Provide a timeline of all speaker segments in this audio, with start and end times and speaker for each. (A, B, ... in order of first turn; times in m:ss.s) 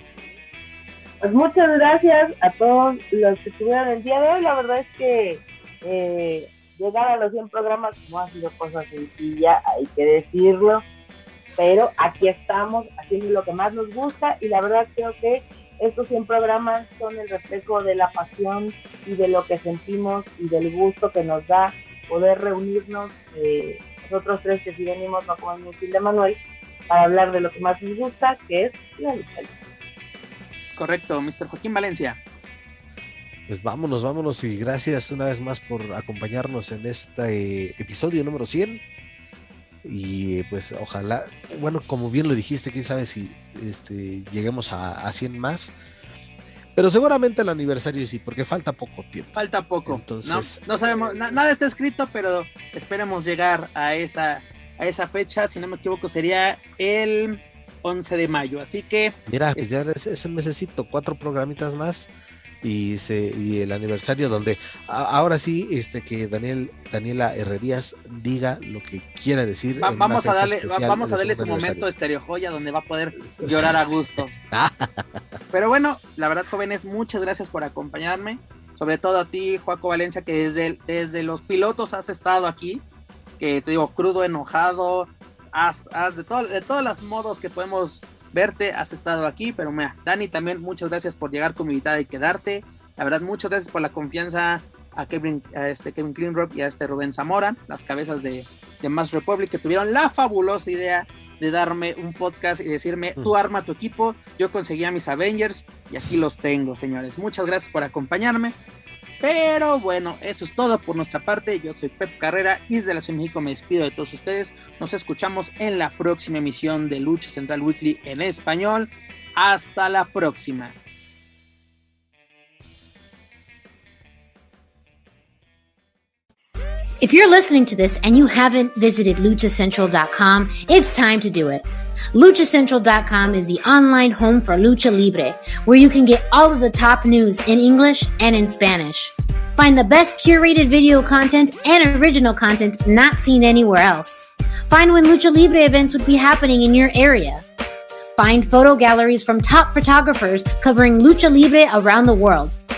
0:01.2-0:10.8 A
0:11.6-0:26.4 A
0:26.9-0:29.5 A
0:30.8-0:32.2 B
0:33.5-0:38.8 C
0:39.8-0:45.7 C
0:46.8-0:49.4 C
0:49.4-0:59.7 B
0:49.9-0:51.5 C
0:59.3-1:02.1 C
1:02.6-1:11.9 C
1:09.8-1:14.3 B
1:13.3-1:13.7 C
1:14.5-1:15.1 C
1:15.5-1:22.8 B
1:23.4-1:48.6 B
1:49.2-2:00.8 B
2:07.0-2:27.4 D
2:28.2-2:32.5 D